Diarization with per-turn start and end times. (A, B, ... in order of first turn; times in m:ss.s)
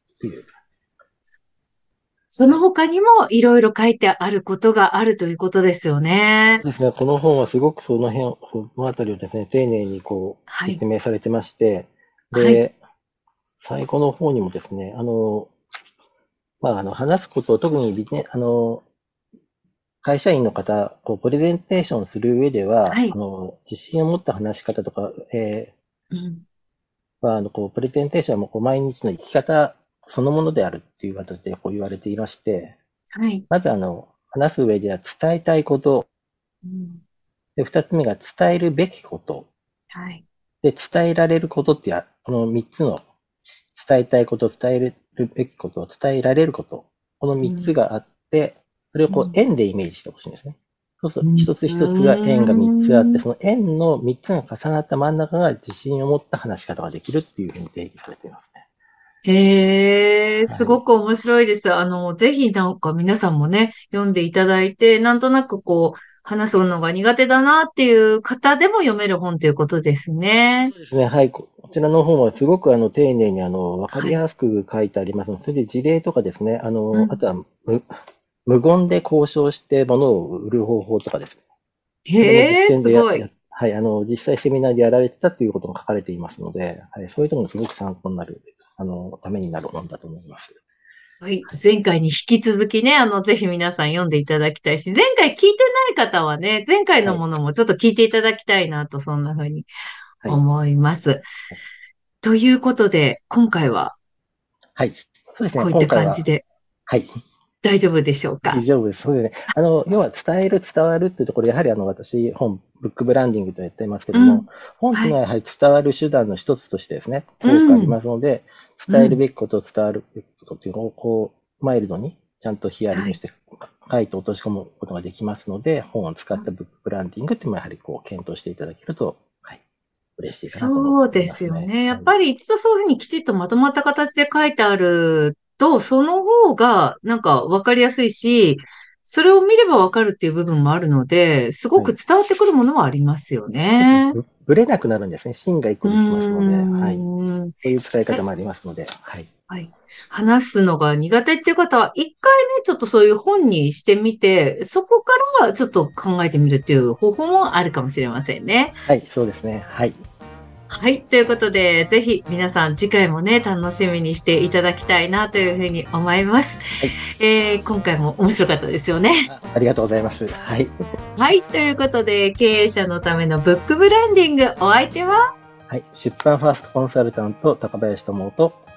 0:00.2-0:00.5 A
0:02.3-0:06.6 B
0:06.6-0:12.8 A
0:10.5-0:10.8 B
0:12.3-0:12.6 B
0:13.6-0:15.5 A
0:16.6-0:18.8 A
0:20.0-0:25.7 A
0:22.8-0:23.2 B
0:26.1-0:26.4 B
0:27.2-0:32.8 A
0:33.1-0:33.4 B
0:33.5-0:36.1 A
0:36.6-0:37.0 B
0:37.6-0:39.5 A
0:39.9-0:40.2 B
0:40.6-0:43.0 A
0:43.7-0:58.6 A
0:47.4-0:47.7 B
0:49.1-0:49.4 B
0:51.2-0:53.2 B
0:59.2-1:10.7 B
1:00.5-1:00.8 A
1:10.6-1:21.4 A
1:13.9-1:14.2 B
1:16.9-1:17.2 B
1:22.1-1:23.3 B
1:22.2-1:30.6 A
1:31.2-1:39.7 B
1:40.2-1:41.3 B
1:42.2-1:43.9 B
1:44.8-1:46.2 A
1:45.6-1:46.4 B
1:47.6-1:48.6 B
1:48.4-2:09.6 A
1:54.1-1:55.2 B
1:57.4-1:58.0 B
1:58.9-1:59.2 B
2:02.9-2:03.2 B
2:10.2-2:12.1 A
2:10.5-2:24.2 B
2:23.7-2:27.0 A
2:25.8-2:27.5 B
2:27.6-2:29.3 A
2:29.5-2:38.8 B
2:38.8-2:40.0 A
2:40.7-2:46.6 B
2:47.2-2:49.3 B
2:49.3-2:50.7 A
2:51.2-2:55.2 B
2:55.7-2:58.6 A